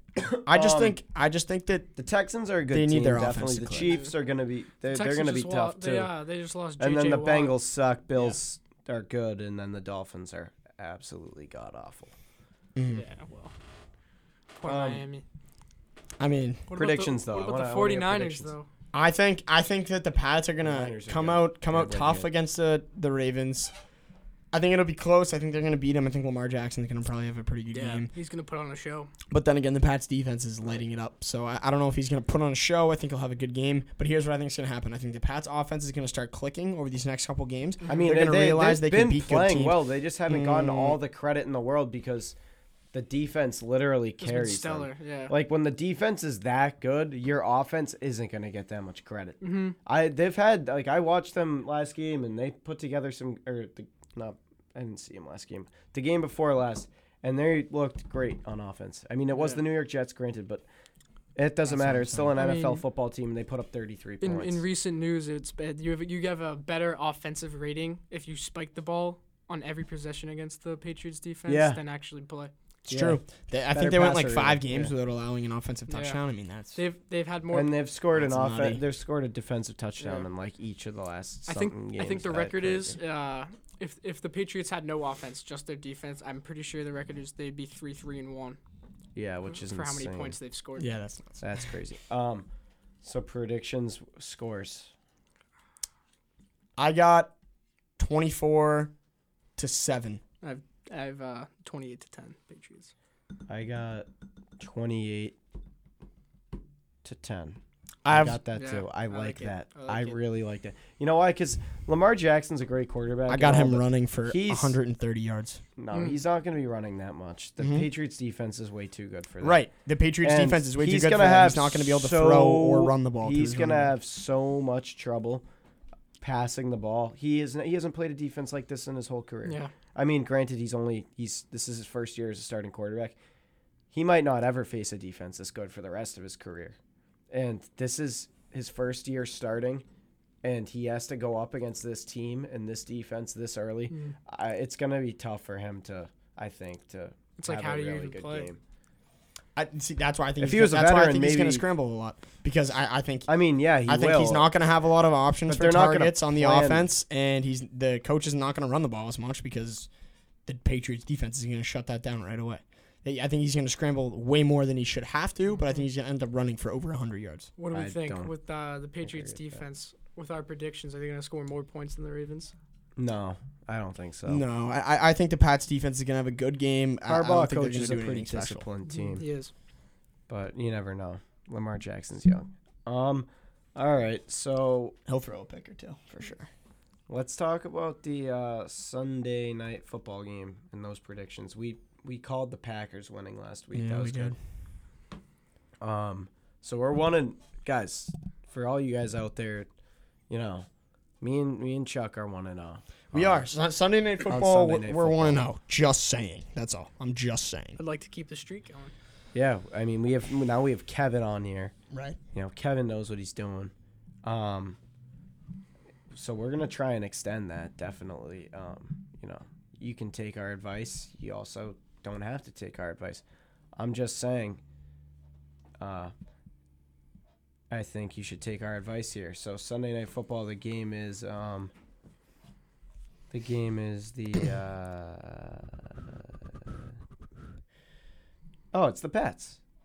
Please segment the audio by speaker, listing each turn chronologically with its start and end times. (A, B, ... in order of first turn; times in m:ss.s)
0:00.2-0:01.0 A
0:00.4-0:01.9 B
0:02.0-0:06.1 A
0:02.7-0:03.9 B
0:03.8-0:04.1 C
0:04.9-0:07.6 C
0:06.8-0:12.1 A
0:12.8-0:13.0 B
0:12.9-0:13.5 C
0:14.6-0:15.2 C
0:14.6-0:15.0 A
0:16.2-0:16.6 B
0:16.7-0:18.7 C
0:16.7-0:18.5 A
0:18.9-0:23.7 B
0:20.6-0:22.3 A
0:24.5-0:28.1 B
0:27.7-0:29.1 C
0:29.3-0:41.0 B
0:37.9-0:42.4 A
0:42.9-1:00.6 A
0:44.2-0:45.3 C
0:49.4-0:49.8 C
0:59.4-0:59.6 C
1:01.4-1:04.6 A
1:01.7-1:02.4 B
1:02.4-1:02.8 C
1:04.2-1:12.5 C
1:11.5-1:11.8 A
1:12.9-1:16.8 B
1:12.9-1:13.2 A
1:13.7-1:14.9 A
1:15.9-1:16.2 C
1:16.7-1:17.8 C
1:17.5-1:23.0 A
1:18.2-1:18.8 B
1:20.0-1:20.3 C
1:21.5-1:28.6 C
1:29.1-1:30.4 A
1:29.5-1:30.9 C
1:30.8-1:31.6 B
1:31.4-1:32.5 A
1:33.0-1:34.9 A
1:36.8-1:37.3 B
1:38.0-1:38.9 B
1:39.6-1:40.2 B
1:40.4-1:42.9 C
1:43.5-1:44.1 A
1:44.6-1:45.4 A
1:47.0-1:54.8 A
1:48.0-1:48.4 B
1:48.5-1:50.2 C
1:53.3-1:55.6 B
1:55.8-1:59.7 A
1:55.9-1:56.2 C
1:57.6-1:57.9 B
1:59.4-2:03.9 B
2:00.2-2:05.4 A
2:06.2-2:13.2 A
2:09.4-2:09.7 C
2:13.9-2:16.8 A
2:17.3-2:19.8 A
2:20.4-2:28.6 A
2:27.4-2:28.5 C
2:29.6-2:33.3 B
2:30.4-2:31.6 A
2:33.3-2:34.5 A
2:33.9-2:39.9 B
2:35.5-2:36.9 A
2:40.5-2:47.5 B
2:47.6-2:52.5 C
2:47.7-2:48.3 A
2:49.0-2:49.6 A
2:53.0-2:54.4 A
2:54.3-2:58.6 B
2:57.1-2:59.2 A
2:58.9-2:59.5 C
3:00.3-3:05.0 A
3:05.1-3:06.5 B
3:07.1-3:14.4 A
3:13.7-3:14.4 B
3:15.8-3:19.7 A
3:20.3-3:20.7 A
3:21.2-3:23.5 A
3:23.1-3:27.8 B
3:24.3-3:25.5 A
3:27.8-3:28.9 C
3:29.3-3:31.7 A
3:31.9-3:32.2 B
3:32.3-3:33.7 A
3:34.2-3:34.8 A
3:36.1-3:43.2 A
3:43.8-3:44.6 A
3:45.8-3:46.1 A
3:47.7-3:51.7 A
3:53.3-3:56.0 A
3:58.7-3:59.6 A